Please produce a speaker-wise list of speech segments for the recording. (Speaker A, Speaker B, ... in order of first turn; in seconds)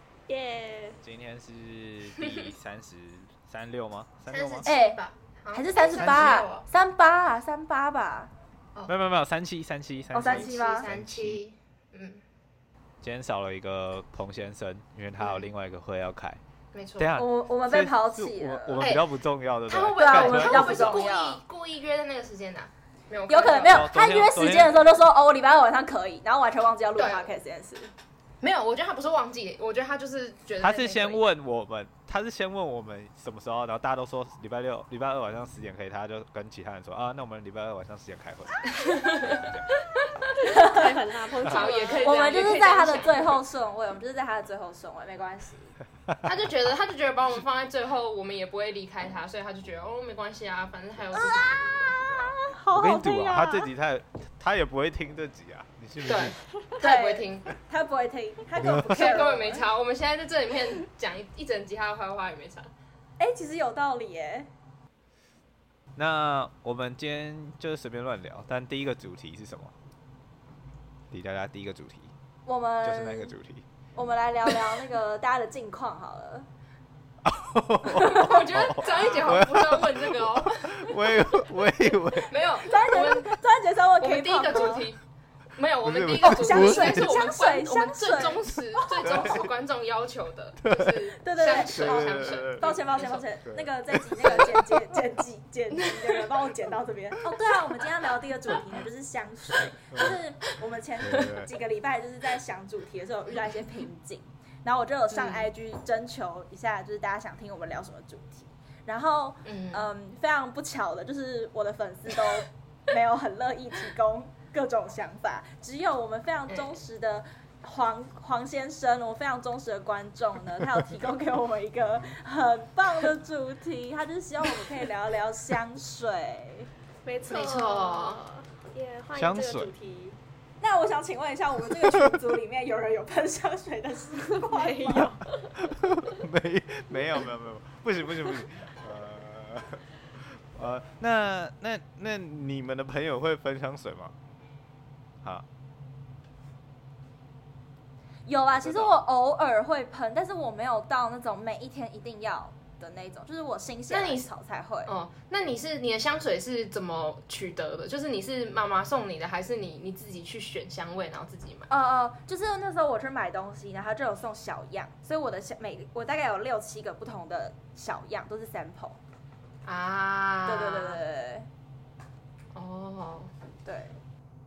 Speaker A: 0.3-1.0, 40.4-42.4, 127.0-130.2, 134.2-135.5
Speaker B: 1.0-4.7, 6.0-6.3, 8.9-11.4, 13.0-16.4, 17.0-21.0, 23.6-24.9, 30.6-39.7, 41.4-41.7, 52.0-56.4, 58.5-59.0, 65.9-69.7, 71.1-72.1, 72.8-73.7, 77.2-82.3, 85.8-87.1, 89.0-89.4, 90.6-92.8, 93.4-94.6, 101.0-101.5, 129.1-129.7, 131.7-132.1, 135.6-144.1, 148.5-148.9
Speaker C: 2.2-2.5, 4.3-6.7, 10.2-12.2, 15.2-15.5, 16.7-17.1, 18.8-19.1, 19.6-23.8, 27.0-27.3, 28.4-31.2, 38.6-40.3, 41.4-43.4, 46.2-52.0, 56.0-57.5, 58.8-62.7, 78.0-81.3, 82.1-83.3, 84.0-85.0, 85.5-93.2, 94.2-94.7, 95.7-96.5, 105.1-105.5, 109.4-109.9, 127.2-128.2, 153.9-154.2, 154.9-161.7, 169.6-171.0, 172.5-173.3
Speaker D: 4.6-5.0, 5.5-8.3, 10.1-10.9, 17.1-18.9, 20.0-21.4, 23.3-27.9, 40.4-41.0, 42.0-45.7, 51.1-53.7, 56.8-59.6, 63.2-64.5, 72.5-73.3, 74.0-76.5, 77.9-79.4, 82.6-84.9, 86.2-89.5, 91.1-126.7, 130.6-135.2, 148.3-154.9, 161.7-169.0, 170.4-171.5, 173.6-173.9